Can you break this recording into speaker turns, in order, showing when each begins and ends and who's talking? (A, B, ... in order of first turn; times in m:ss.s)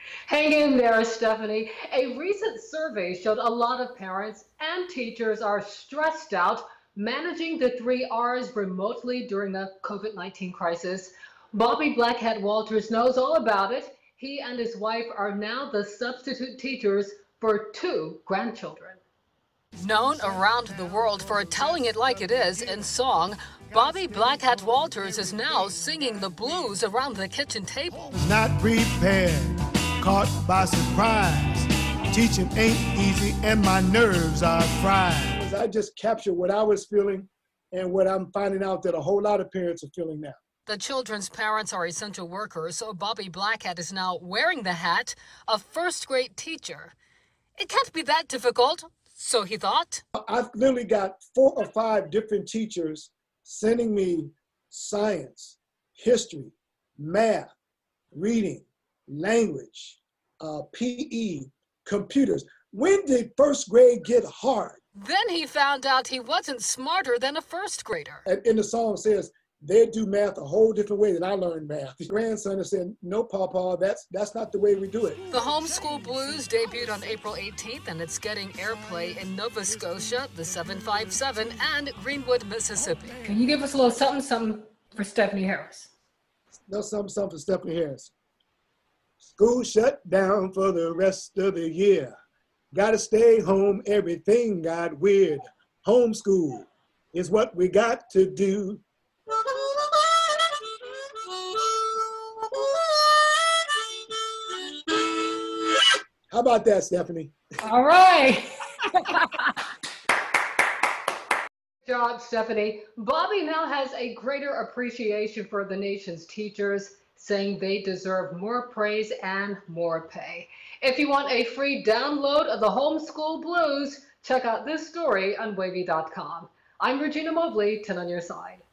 0:00.3-0:19.0 A
0:19.8-0:28.1 B
0:28.1-0:40.4 C
0:40.7-0:46.9 B
0:47.6-0:50.0 B
0:50.2-0:57.5 C
0:58.1-1:04.8 C
1:05.0-1:08.2 B
1:08.2-1:15.2 C
1:15.3-1:23.2 B
1:23.2-1:25.9 A
1:26.7-1:28.1 C
1:29.4-1:32.1 C
1:32.7-1:38.8 C
1:46.3-1:47.3 C
1:47.6-1:49.5 A
1:51.8-2:08.6 A